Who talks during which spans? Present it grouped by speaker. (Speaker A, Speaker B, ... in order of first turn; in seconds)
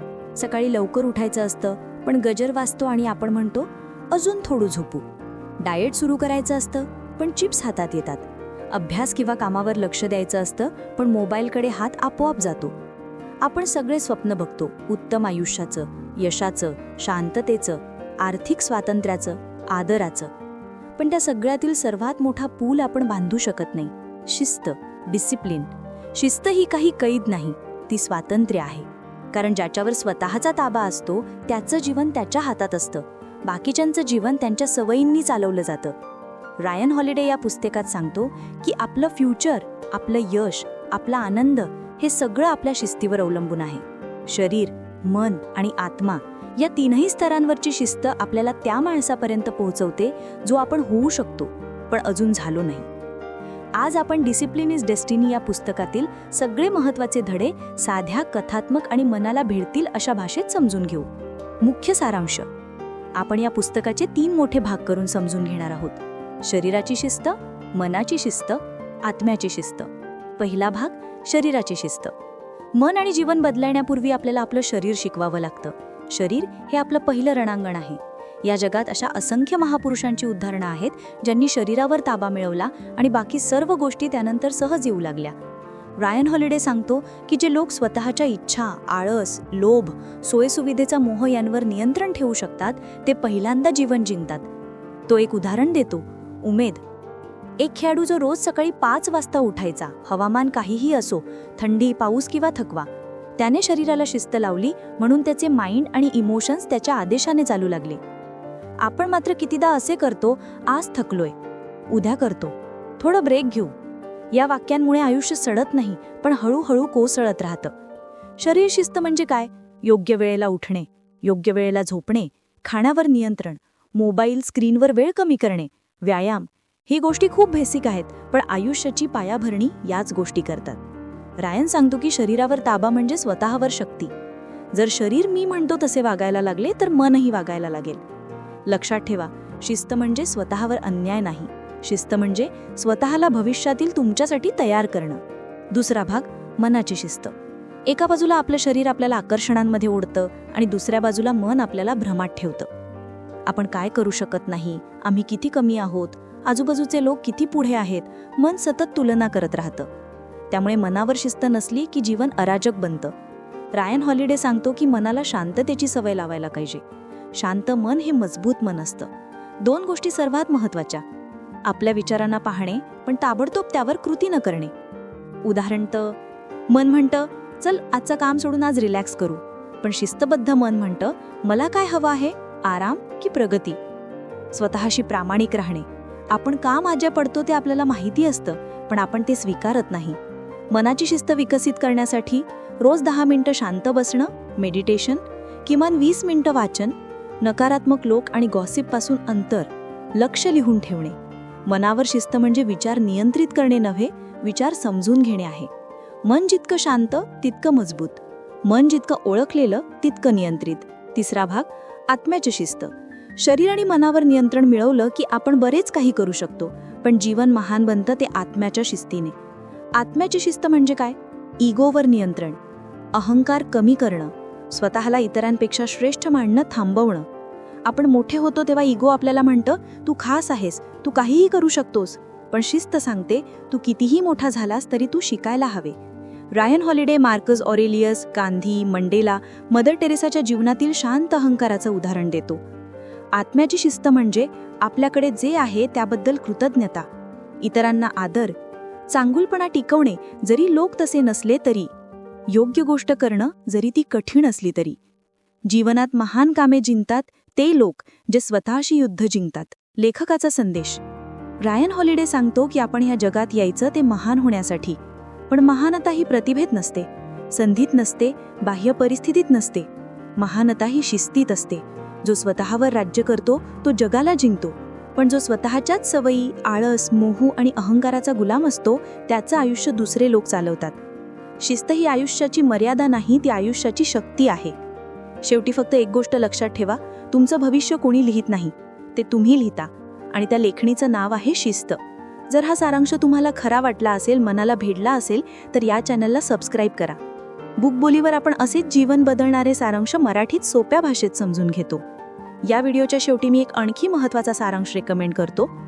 Speaker A: 0.4-5.0, 5.6-12.7, 13.4-20.3, 21.0-36.0, 36.6-52.9, 53.8-61.1, 61.6-62.5, 63.2-72.1, 72.8-85.3, 86.0-94.5, 95.1-96.8, 97.6-108.0, 108.8-111.3, 111.9-113.8, 114.3-117.7, 118.4-130.8, 131.4-134.1, 134.7-138.0, 138.7-147.3, 147.9-152.7, 153.5-159.9, 160.5-163.1, 163.7-166.8, 167.3-169.1, 169.6-171.0, 171.7-174.7, 175.4-176.2, 176.7-183.8, 184.5-190.2, 190.7-205.7, 206.3-219.3, 219.9-222.6, 223.1-227.3, 227.8-236.0, 236.5-242.6, 243.3-247.1, 247.6-248.6, 249.1-251.9, 252.5-255.0, 255.7-261.0, 261.6-265.0, 265.5-281.0, 281.6-284.8, 285.4-297.2, 297.8-302.0, 302.6-305.7